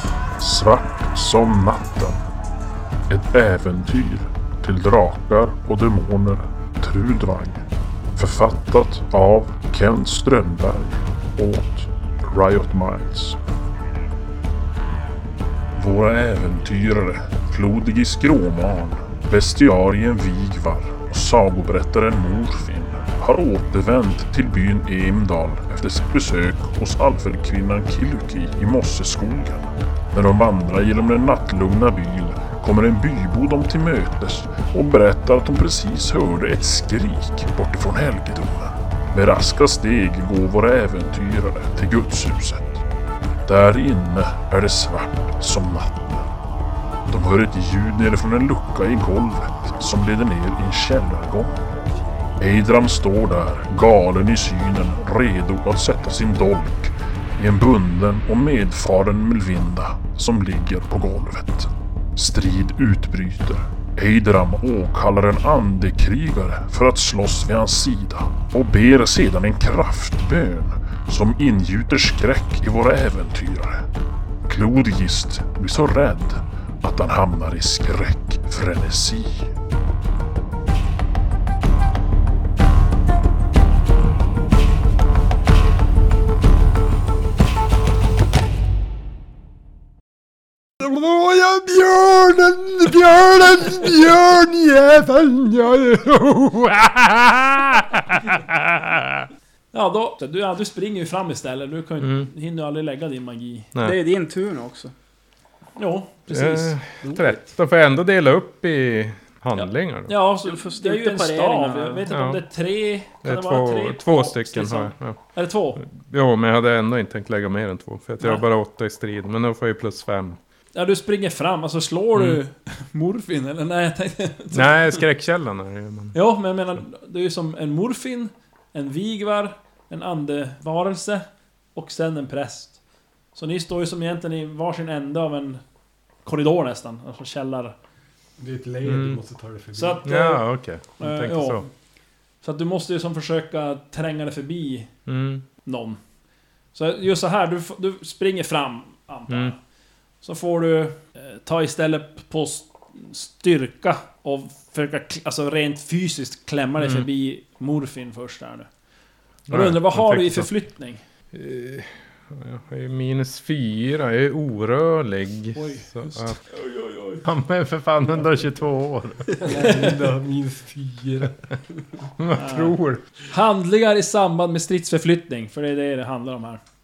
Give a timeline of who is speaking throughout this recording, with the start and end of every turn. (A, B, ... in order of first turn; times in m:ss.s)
0:00.4-0:02.2 A
0:03.1-0:07.6 A
0:08.2-0:13.4 A
0:15.8-0:42.8 A
0:43.4-0:46.3 A
0:47.1-0:51.5 A
0:52.4-1:13.8 A
1:14.5-1:19.5 A
1:30.8-1:39.3 B
1:39.7-1:43.7 C
1:42.0-1:42.3 B
1:43.8-1:44.9 D
1:45.8-1:46.8 C
1:46.3-1:50.1 B
1:47.0-1:47.4 D
1:49.6-1:55.8 C
1:50.4-1:52.1 D
1:52.1-1:52.4 B
1:53.2-1:55.2 B
1:55.8-2:00.4 B
2:00.7-2:05.0 C
2:02.1-2:02.4 B
2:04.5-2:06.2 B
2:06.1-2:11.2 C
2:11.7-2:12.8 C
2:13.3-2:15.6 C
2:16.2-2:17.8 C
2:18.4-2:20.1 E
2:18.8-2:19.2 B
2:19.7-2:20.4 C
2:20.0-2:21.7 B
2:21.0-2:21.6 C
2:22.4-2:24.9 C
2:25.0-2:25.4 B
2:25.6-2:26.0 C
2:26.7-2:29.6 C
2:29.3-2:29.5 B
2:30.2-2:38.7 C
2:36.8-2:37.1 B
2:39.5-2:40.5 B
2:39.5-2:41.0 C
2:41.3-2:46.4 B
2:45.5-2:47.2 C
2:47.2-2:49.4 B
2:49.4-2:51.4 E
2:49.6-2:49.9 C
2:52.2-2:53.0 B
2:52.3-2:56.6 C